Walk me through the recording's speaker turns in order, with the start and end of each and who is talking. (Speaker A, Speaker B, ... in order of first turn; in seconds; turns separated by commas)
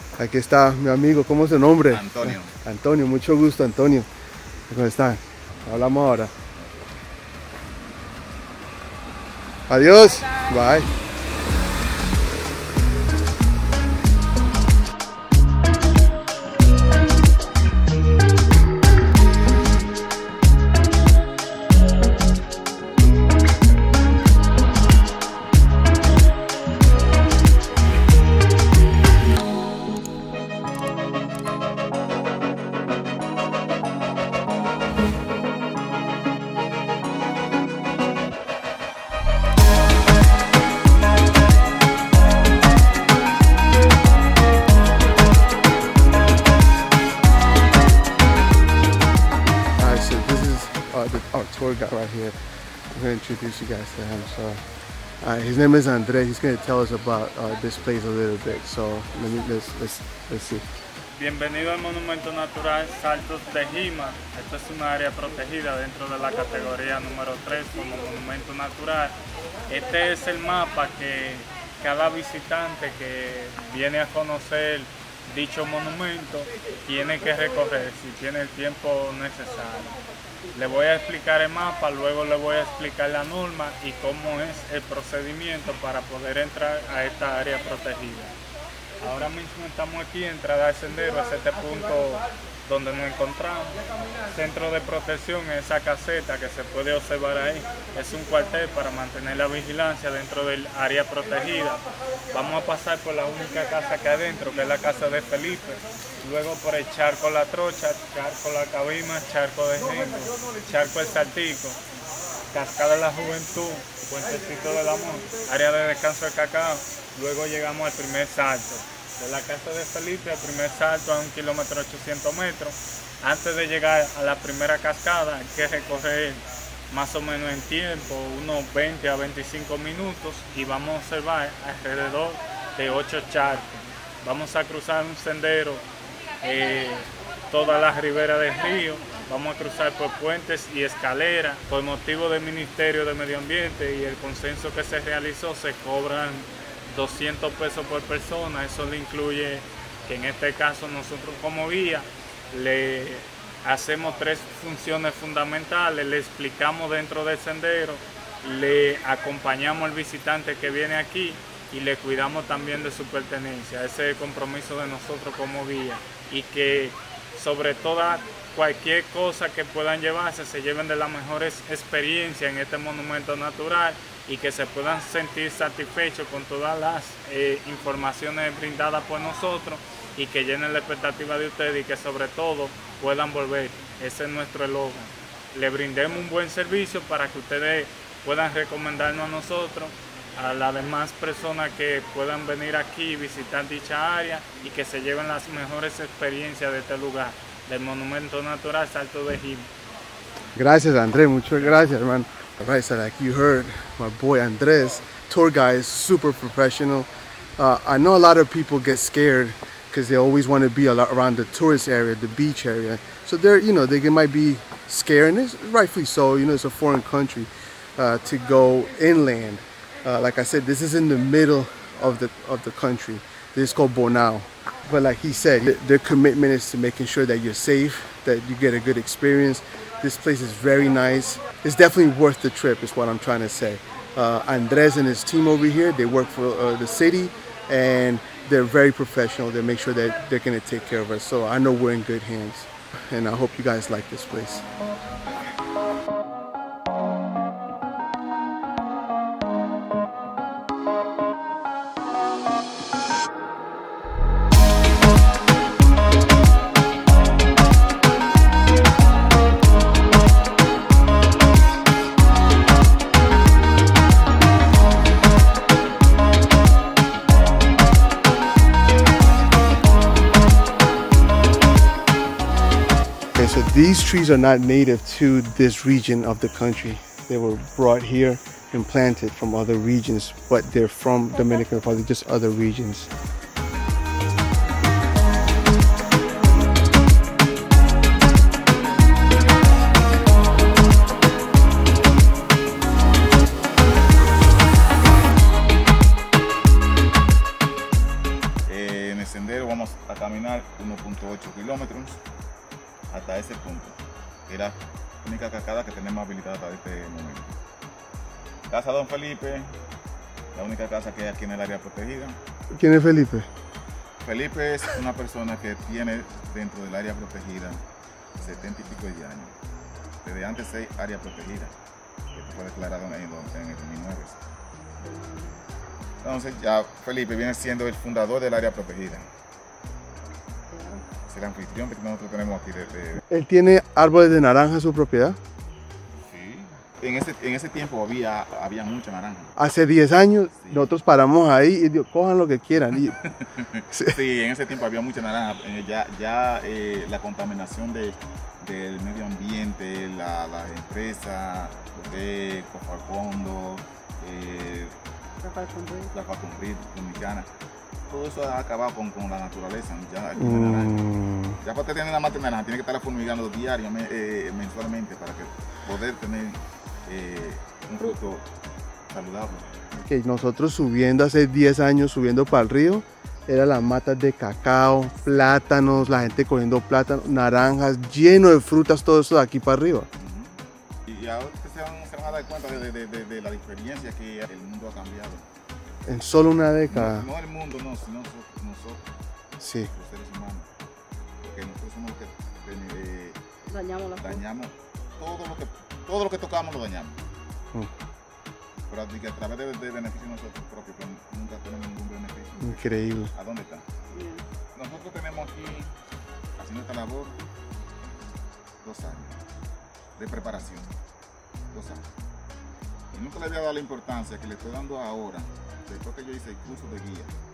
Speaker A: 0.2-4.1, Speaker B: 1.9-2.5, Speaker A: 4.7-6.3, Speaker A: 9.7-10.9, Speaker A: 49.8-52.4, Speaker A: 52.9-54.6, Speaker A: 55.2-60.6, Speaker C: 61.1-69.2, Speaker C: 69.7-79.9, Speaker C: 80.5-88.4, Speaker C: 89.0-111.8, Speaker C: 112.5-135.8, Speaker C: 136.4-199.7, Speaker A: 200.6-244.7, Speaker A: 273.3-283.1, Speaker B: 298.7-302.2, Speaker B: 303.1-304.0, Speaker B: 304.5-307.5, Speaker B: 308.7-309.7, Speaker B: 310.5-312.4, Speaker A: 312.7-313.5, Speaker B: 314.2-317.8, Speaker B: 318.4-319.5, Speaker B: 320.2-321.7, Speaker B: 322.3-324.4, Speaker D: 325.0-325.6, Speaker B: 326.2-329.3, Speaker D: 330.7-331.0, Speaker B: 331.3-333.2, Speaker A: 333.3-335.4, Speaker B: 336.2-339.5, Speaker A: 339.6-343.2, Speaker B: 340.6-340.9, Speaker B: 343.2-354.9, Speaker A: 343.9-344.2, Speaker D: 355.4-356.1, Speaker B: 356.1-357.5, Speaker B: 358.1-361.0, Speaker A: 360.4-361.6, Speaker B: 361.6-368.4, Speaker B: 369.1-370.0, Speaker A: 370.1-380.1, Speaker B: 380.2-385.5, Speaker A: 386.1-387.3, Speaker B: 386.9-389.1, Speaker A: 389.6-389.9, Speaker B: 389.9-390.7, Speaker B: 391.4-393.4, Speaker D: 393.7-394.4, Speaker B: 394.2-397.2, Speaker B: 398.9-403.8, Speaker A: 402.6-403.3, Speaker D: 404.1-404.4, Speaker B: 404.8-405.9, Speaker B: 406.6-407.4, Speaker B: 408.8-409.4, Speaker B: 410.2-410.9, Speaker B: 411.7-412.0, Speaker B: 413.1-417.3